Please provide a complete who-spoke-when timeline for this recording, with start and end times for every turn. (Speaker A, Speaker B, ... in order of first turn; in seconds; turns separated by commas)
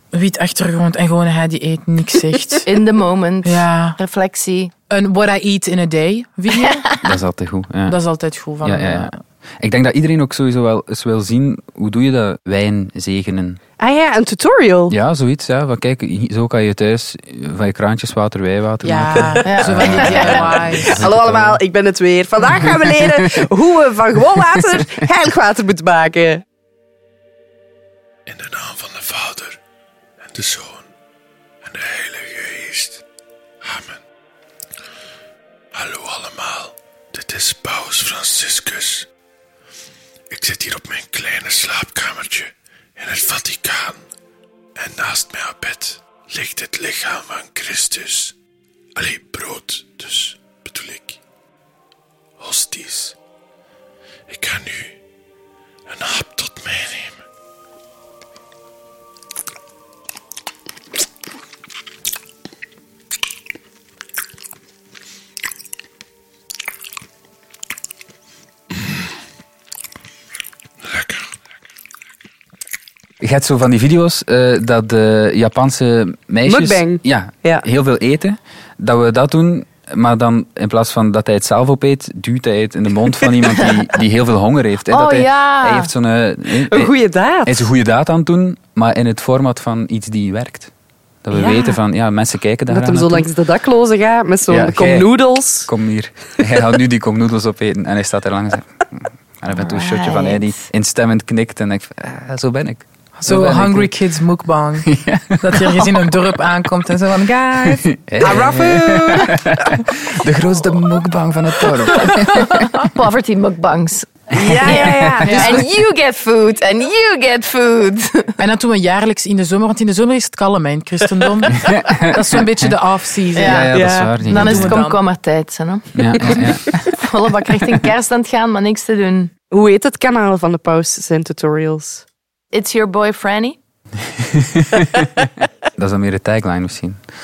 Speaker A: 0.1-2.9, Speaker B: 2.6-4.7, Speaker A: 3.4-4.0, Speaker A: 4.9-7.1, Speaker C: 7.0-8.0, Speaker A: 7.9-9.2, Speaker C: 8.6-13.6, Speaker D: 13.8-15.0, Speaker C: 14.9-21.6, Speaker A: 18.8-21.0, Speaker B: 19.4-20.4, Speaker D: 20.6-26.4, Speaker E: 28.3-29.6, Speaker E: 30.3-30.8, Speaker E: 31.7-33.0, Speaker E: 33.6-34.0, Speaker E: 35.8-39.1, Speaker E: 40.3-44.0, Speaker E: 44.8-48.3, Speaker E: 49.0-51.2, Speaker E: 52.4-53.2, Speaker E: 54.3-54.9, Speaker E: 55.9-57.1, Speaker C: 73.2-86.9, Speaker D: 76.5-77.7, Speaker B: 84.9-85.9, Speaker D: 86.7-87.7, Speaker C: 87.5-90.7, Speaker C: 91.2-93.3, Speaker D: 91.3-91.8, Speaker D: 92.7-95.7, Speaker C: 94.5-104.0, Speaker B: 99.5-100.5, Speaker A: 103.2-108.4, Speaker C: 104.8-105.9, Speaker C: 108.0-112.6, Speaker D: 108.2-109.5, Speaker A: 112.0-112.5, Speaker B: 112.4-118.3, Speaker D: 114.3-115.6, Speaker A: 115.2-115.6, Speaker A: 118.4-125.0, Speaker C: 121.7-122.2, Speaker B: 123.3-123.7, Speaker C: 123.4-124.8, Speaker D: 123.7-124.1, Speaker B: 124.3-129.3, Speaker C: 126.0-126.9, Speaker D: 129.5-132.1, Speaker B: 132.5-133.6, Speaker C: 134.2-134.7, Speaker C: 135.8-137.0